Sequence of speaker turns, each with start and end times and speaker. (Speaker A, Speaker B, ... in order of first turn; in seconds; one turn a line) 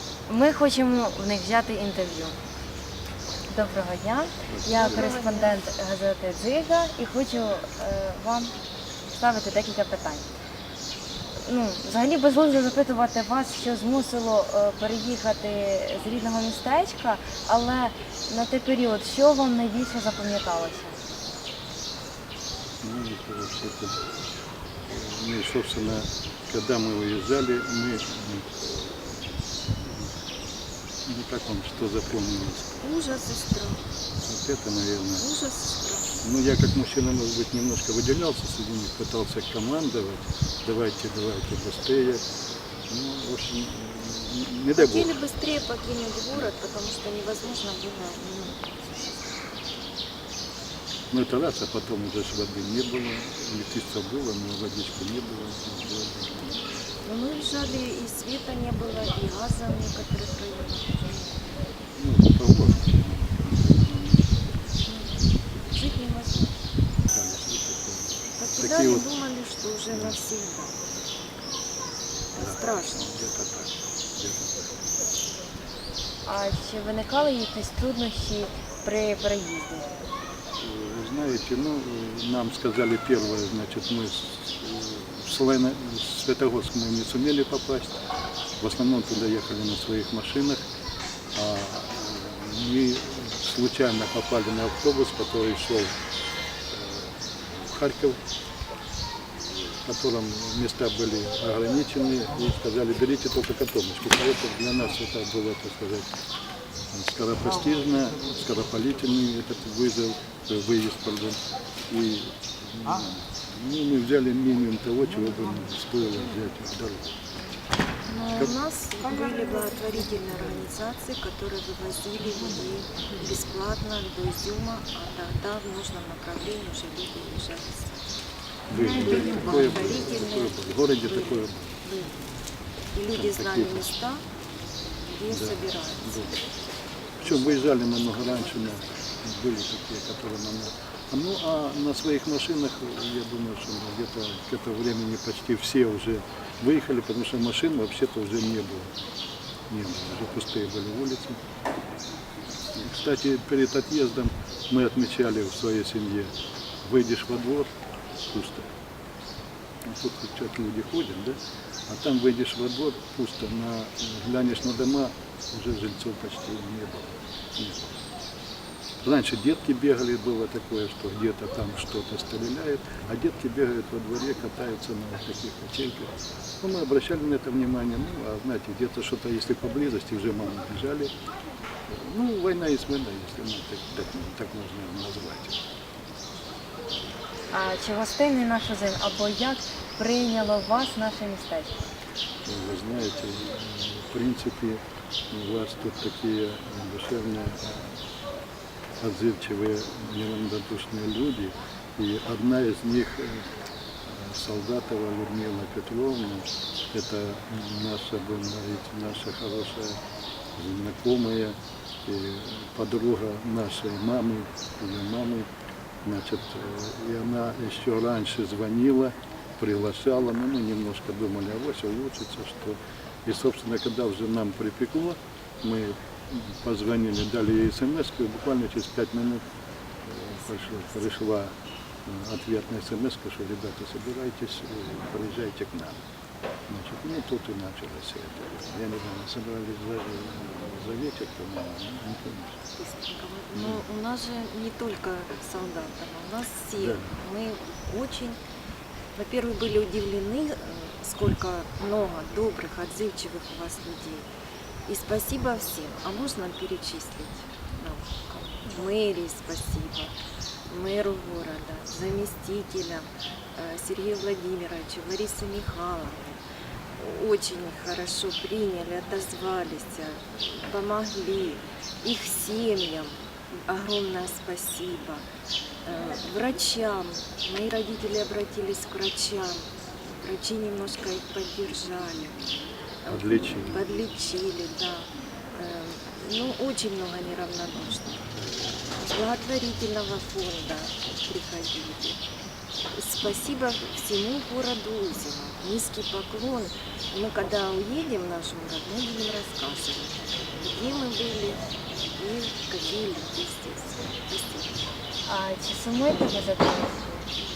Speaker A: 0.3-2.4
Speaker A: 3.5-10.3
Speaker B: 4.5-5.1
Speaker C: 4.7-5.5
Speaker A: 11.4-21.0
Speaker B: 22.8-23.9
Speaker B: 24.9-29.1
Speaker B: 29.8-30.1
Speaker B: 31.1-32.8
Speaker C: 32.8-33.9
Speaker B: 34.2-35.2
Speaker C: 35.2-36.2
Speaker B: 36.2-42.2
Speaker B: 42.9-45.2
Speaker C: 44.8-48.6
Speaker B: 51.1-56.6
Speaker C: 57.0-61.4
Speaker B: 62.0-64.4
Speaker C: 64.9-65.2
Speaker C: 65.7-66.6
Speaker B: 67.1-69.1
Speaker C: 68.4-70.8
Speaker B: 69.9-70.2
Speaker B: 72.3-75.0
Speaker C: 72.3-73.0
Speaker A: 76.2-79.9
Speaker B: 80.6-88.0
Speaker B: 88.6-90.6
Speaker B: 91.3-95.9
Speaker B: 96.7-98.2
Speaker B: 99.3-106.1
Speaker B: 106.9-117.3
Speaker C: 118.0-128.0
Speaker B: 128.7-131.8
Speaker C: 128.8-132.3
Speaker C: 132.9-134.2
Speaker B: 133.1-133.9
Speaker C: 135.1-136.2
Speaker B: 135.3-136.4
Speaker B: 137.2-148.9
Speaker C: 137.2-138.9
Speaker B: 149.7-151.4
Speaker B: 152.7-156.3
Speaker B: 156.8-157.7
Speaker B: 158.3-158.7
Speaker B: 159.8-161.4
Speaker B: 161.9-168.0
Speaker B: 169.0-181.1
Speaker B: 181.9-185.6
Speaker A: 187.5-191.8
Speaker B: 192.4-198.0
Speaker B: 199.0-203.5
Speaker B: 204.0-210.0
Speaker B: 210.6-215.5
Speaker B: 216.0-229.4
Speaker B: 230.0-231.5
Speaker C: 230.5-230.9
Speaker B: 232.1-236.0
Speaker B: 236.7-242.6
Speaker C: 242.8-248.4
Speaker B: 243.5-243.8
Speaker B: 246.7-247.1
Speaker C: 249.1-254.3
Speaker C: 254.9-260.1
Speaker C: 260.7-266.4
Speaker C: 266.9-275.2
Speaker C: 275.8-282.4
Speaker C: 283.0-292.2
Speaker B: 283.1-283.8
Speaker C: 292.9-304.8
Speaker A: 305.2-307.3